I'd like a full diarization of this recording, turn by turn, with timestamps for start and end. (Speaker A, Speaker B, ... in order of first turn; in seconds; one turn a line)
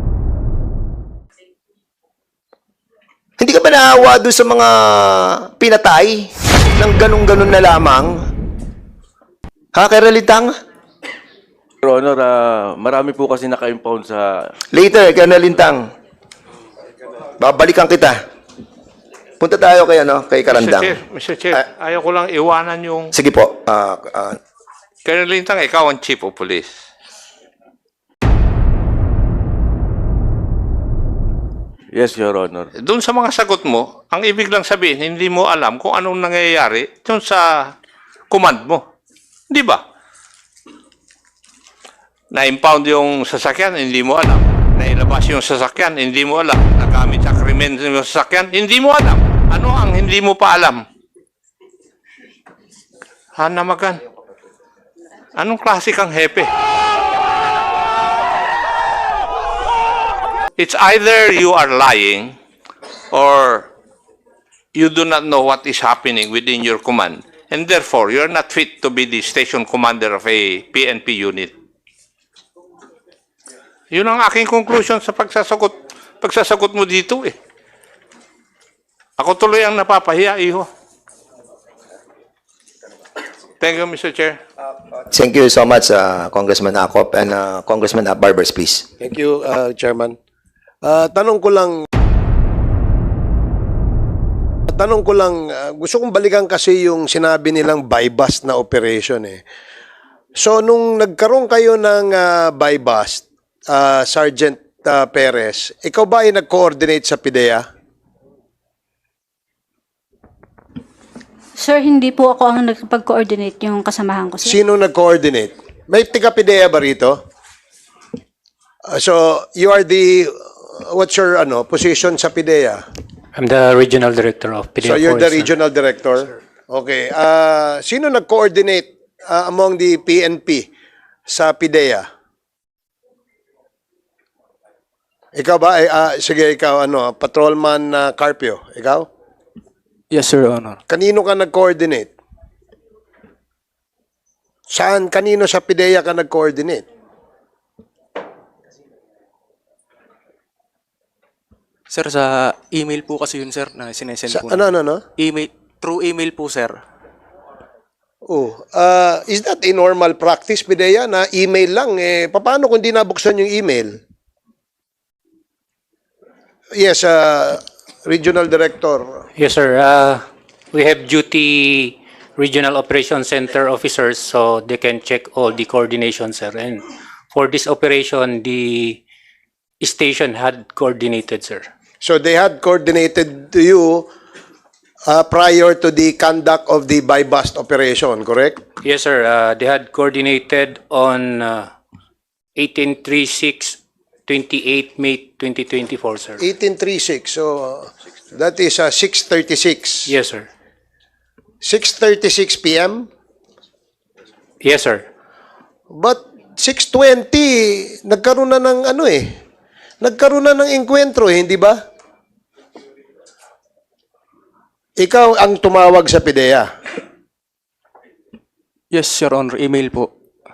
Speaker A: 3.4-8.2
Speaker A: 9.7-10.5
Speaker B: 11.8-14.3
Speaker A: 14.7-15.8
Speaker A: 17.4-18.2
Speaker A: 19.4-21.0
Speaker C: 20.5-23.1
Speaker A: 23.1-24.4
Speaker C: 25.1-26.7
Speaker B: 31.9-32.7
Speaker C: 32.8-37.7
Speaker C: 38.3-38.8
Speaker C: 39.5-39.8
Speaker C: 42.3-50.8
Speaker C: 53.4-54.0
Speaker C: 55.4-56.5
Speaker C: 60.6-62.3
Speaker C: 63.1-63.7
Speaker C: 64.7-71.5
Speaker C: 73.9-77.3
Speaker C: 79.2-80.7
Speaker C: 83.6-84.4
Speaker A: 85.1-88.9
Speaker D: 89.0-90.2
Speaker D: 90.8-91.8
Speaker D: 94.7-99.4
Speaker D: 100.3-107.7
Speaker E: 111.6-114.6
Speaker D: 114.4-117.2
Speaker D: 118.9-122.8
Speaker F: 123.3-125.5
Speaker D: 124.8-130.7
Speaker D: 131.3-132.1
Speaker D: 135.3-139.1
Speaker G: 140.1-140.8
Speaker D: 140.9-142.1
Speaker D: 144.7-146.8
Speaker G: 151.9-154.7
Speaker D: 154.3-155.0
Speaker G: 155.2-156.8
Speaker D: 158.3-164.0
Speaker D: 166.7-169.2
Speaker F: 169.4-170.2
Speaker F: 170.7-179.0
Speaker F: 179.8-181.7
Speaker D: 182.0-184.1
Speaker D: 185.1-188.6
Speaker F: 188.8-191.7
Speaker F: 192.6-196.4
Speaker D: 196.4-200.1
Speaker F: 200.1-200.5
Speaker D: 201.6-203.1
Speaker F: 204.6-205.0
Speaker D: 205.9-209.3
Speaker D: 210.0-211.8
Speaker D: 215.0-216.7
Speaker G: 218.9-220.1